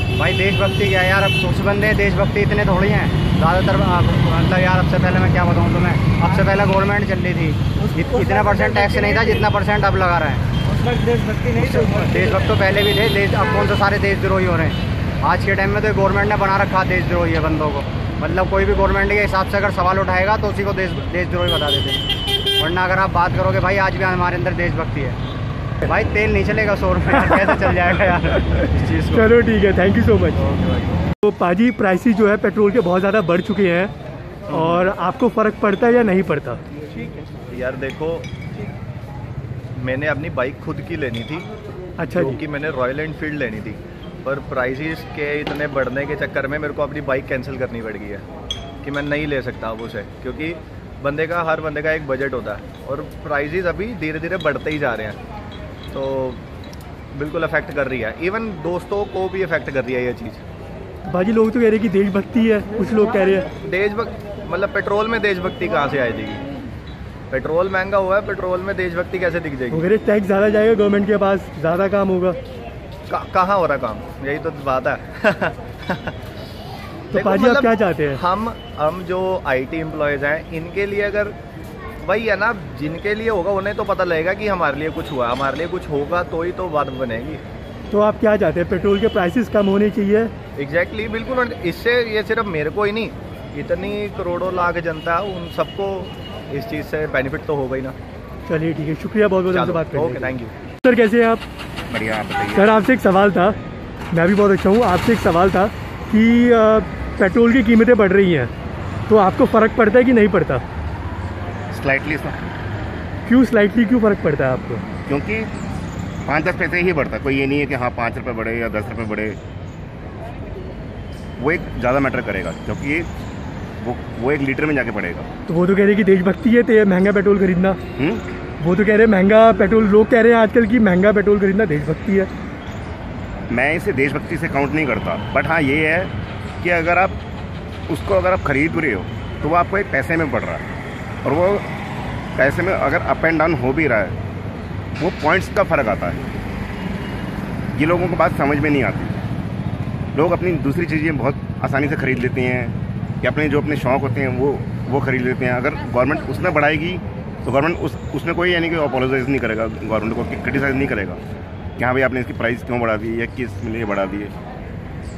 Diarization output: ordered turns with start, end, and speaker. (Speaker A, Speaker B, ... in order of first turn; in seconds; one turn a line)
Speaker A: 0.1-10.4
Speaker B: 8.1-9.4
Speaker B: 10.7-12.6
Speaker A: 11.5-22.0
Speaker A: 22.6-25.2
Speaker A: 25.8-29.1
Speaker C: 27.2-27.6
Speaker C: 29.1-30.4
Speaker D: 30.4-30.8
Speaker C: 31.2-33.9
Speaker D: 34.5-34.8
Speaker C: 34.5-36.6
Speaker D: 36.9-38.6
Speaker D: 39.8-41.5
Speaker C: 42.0-42.4
Speaker D: 42.1-48.2
Speaker D: 48.8-55.2
Speaker D: 55.9-56.4
Speaker D: 57.1-60.4
Speaker C: 61.1-63.5
Speaker D: 63.6-66.4
Speaker D: 67.3-69.9
Speaker C: 69.7-72.4
Speaker D: 73.1-76.1
Speaker C: 77.1-78.2
Speaker D: 77.1-81.3
Speaker D: 82.0-87.4
Speaker C: 87.9-90.3
Speaker D: 90.6-98.0
Speaker C: 98.5-100.3
Speaker D: 99.5-100.5
Speaker C: 100.8-101.4
Speaker E: 101.9-102.8
Speaker C: 102.5-103.6
Speaker C: 104.1-108.5
Speaker C: 109.1-110.6
Speaker E: 111.7-112.4
Speaker C: 113.2-114.8
Speaker E: 115.1-115.5
Speaker E: 116.2-119.4
Speaker E: 121.4-123.1
Speaker E: 123.8-125.3
Speaker C: 125.5-127.8
Speaker E: 128.0-128.2
Speaker C: 128.6-132.3
Speaker E: 133.5-136.1
Speaker E: 136.6-137.2
Speaker E: 137.9-140.6
Speaker E: 141.2-141.7
Speaker E: 142.4-144.2
Speaker E: 145.0-146.2
Speaker E: 147.7-149.2
Speaker E: 150.1-161.2
Speaker E: 161.8-164.3